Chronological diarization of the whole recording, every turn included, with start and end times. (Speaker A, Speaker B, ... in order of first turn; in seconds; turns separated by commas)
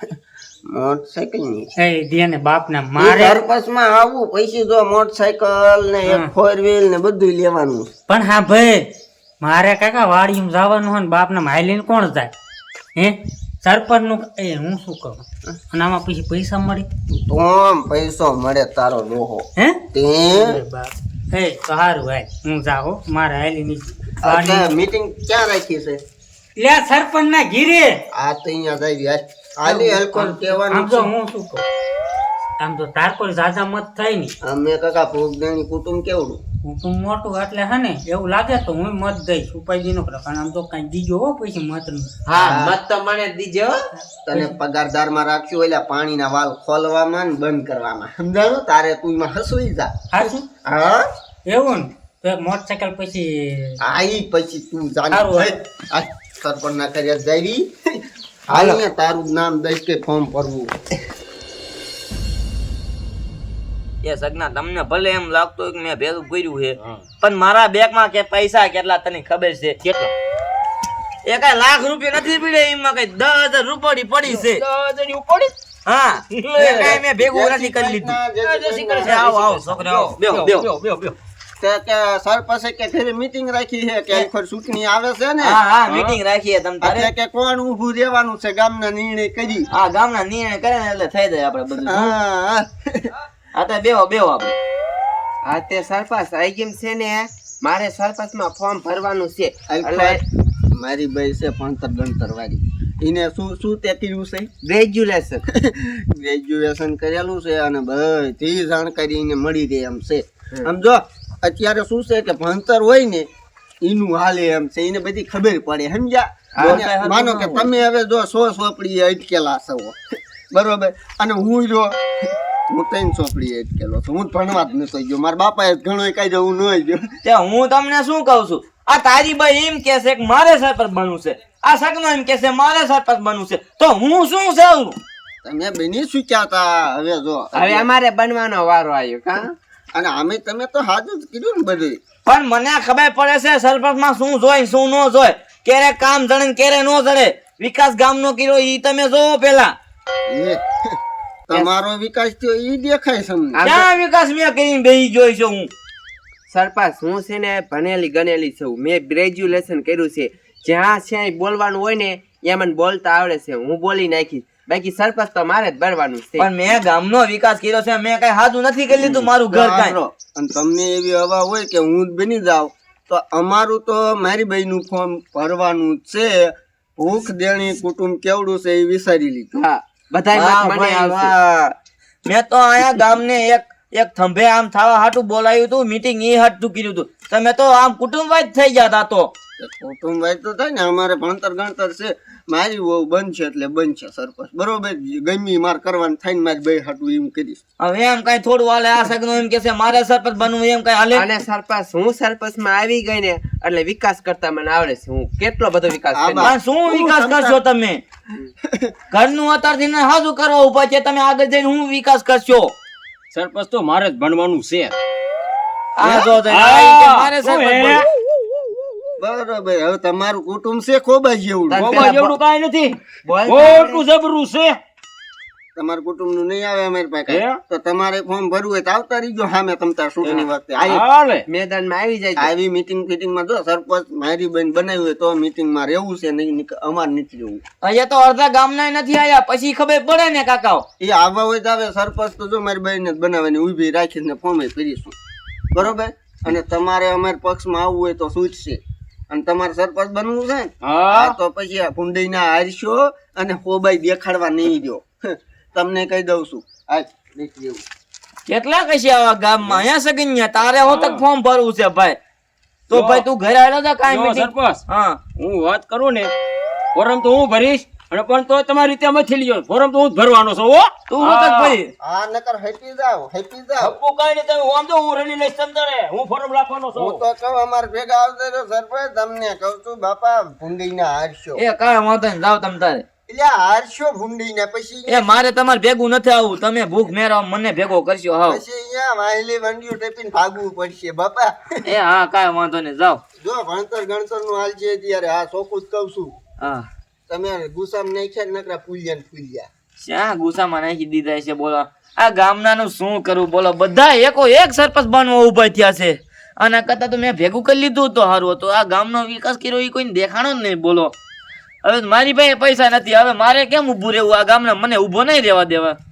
Speaker A: 0.7-1.7, Speaker B: 1.8-3.4, Speaker A: 3.0-7.9, Speaker B: 6.0-6.3, Speaker B: 8.1-8.8, Speaker B: 9.4-12.3, Speaker B: 12.9-16.9, Speaker A: 17.1-20.6, Speaker B: 19.6-24.7, Speaker A: 24.2-26.0, Speaker B: 26.6-28.0, Speaker A: 28.1-31.1, Speaker B: 29.6-31.6, Speaker B: 32.6-34.3, Speaker A: 34.4-36.4, Speaker B: 36.6-42.1, Speaker C: 42.3-43.8, Speaker A: 42.3-42.8, Speaker B: 44.0-44.5, Speaker A: 44.3-51.0, Speaker B: 50.1-50.4, Speaker B: 51.5-53.8, Speaker A: 53.8-58.0, Speaker B: 55.1-55.5, Speaker A: 58.5-60.7, Speaker C: 58.5-58.8, Speaker D: 64.0-69.8, Speaker E: 69.8-70.1, Speaker D: 71.2-74.6, Speaker E: 74.2-75.5, Speaker D: 75.8-78.2, Speaker E: 76.3-77.0, Speaker A: 76.6-79.3, Speaker E: 78.4-81.2, Speaker D: 79.0-80.6, Speaker A: 81.6-85.6, Speaker D: 85.4-87.1, Speaker E: 85.9-86.2, Speaker A: 86.8-89.7, Speaker D: 89.7-92.1, Speaker A: 91.8-93.1, Speaker D: 93.5-94.5, Speaker C: 95.4-100.2, Speaker A: 99.7-100.2, Speaker A: 100.7-104.5, Speaker C: 104.6-105.4, Speaker A: 105.5-113.3, Speaker A: 113.8-121.9, Speaker C: 116.5-116.8, Speaker D: 116.6-117.7, Speaker A: 122.7-127.0, Speaker D: 127.2-135.0, Speaker A: 135.4-137.9, Speaker C: 137.5-139.5, Speaker A: 139.9-142.0, Speaker D: 142.2-149.7, Speaker A: 150.3-151.0, Speaker A: 151.5-153.6, Speaker C: 153.5-153.8, Speaker D: 153.6-155.7, Speaker C: 156.5-166.5, Speaker D: 166.4-169.9, Speaker A: 169.0-179.6, Speaker C: 179.5-181.3, Speaker D: 180.3-189.3, Speaker A: 189.6-197.6, Speaker D: 197.8-201.3, Speaker C: 201.1-206.5, Speaker A: 206.1-207.6, Speaker D: 206.4-208.0, Speaker D: 209.1-212.7, Speaker E: 213.3-214.9, Speaker D: 216.0-218.0, Speaker E: 216.0-218.1, Speaker A: 219.2-222.1, Speaker C: 221.7-222.4, Speaker E: 221.7-224.8, Speaker C: 223.2-224.0, Speaker A: 225.8-231.0, Speaker E: 227.3-227.6, Speaker E: 230.2-231.4, Speaker C: 230.8-232.5, Speaker A: 232.3-237.6, Speaker D: 237.8-240.8, Speaker A: 241.0-245.1, Speaker A: 245.7-248.8, Speaker A: 249.3-257.8, Speaker E: 250.8-251.4, Speaker D: 258.4-262.2, Speaker E: 260.8-261.2, Speaker D: 262.9-265.2, Speaker E: 262.9-263.2, Speaker E: 264.1-264.8, Speaker E: 265.4-266.3, Speaker E: 266.9-271.8, Speaker D: 271.1-271.9, Speaker A: 272.0-273.9, Speaker E: 273.8-277.2, Speaker A: 276.9-281.6, Speaker D: 281.6-283.0, Speaker A: 283.3-285.4, Speaker D: 285.1-288.6, Speaker A: 288.5-291.6, Speaker D: 291.9-293.2, Speaker A: 293.4-296.3, Speaker D: 296.6-296.9, Speaker A: 297.3-299.7, Speaker D: 300.0-311.1, Speaker D: 311.8-316.0